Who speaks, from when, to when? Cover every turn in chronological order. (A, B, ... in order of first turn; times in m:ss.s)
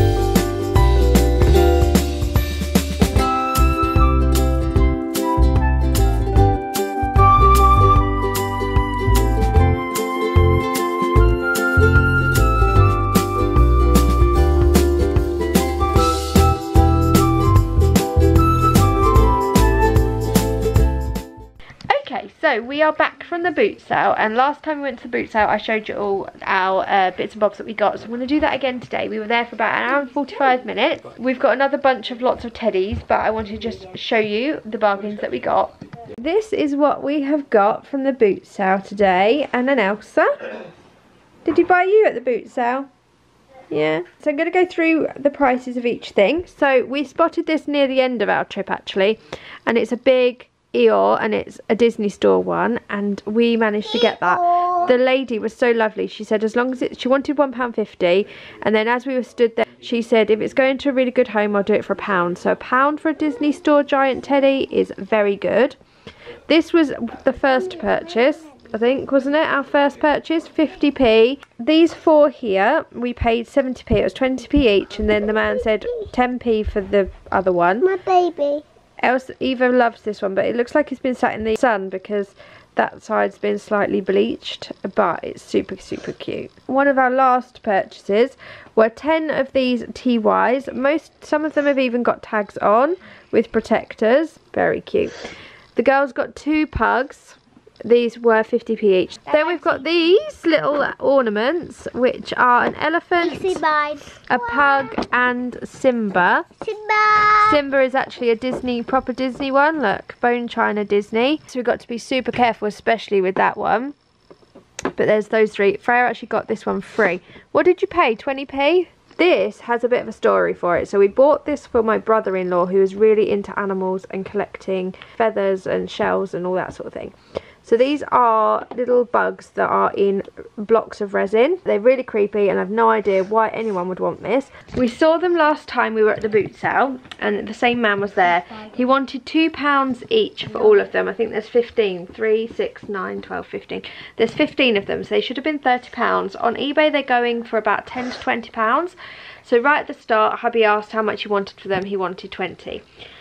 0:21.9-0:40.5 A
0:41.4-0:42.9 A
0:43.7-1:05.8 A
0:54.4-0:54.7 B
1:06.4-1:17.9 A
1:17.8-1:18.6 B
1:19.0-1:43.6 A
1:39.3-1:39.9 B
1:43.2-1:44.8 B
1:44.2-1:46.5 A
1:46.6-1:47.6 B
1:47.4-1:53.9 A
1:54.9-2:32.8 A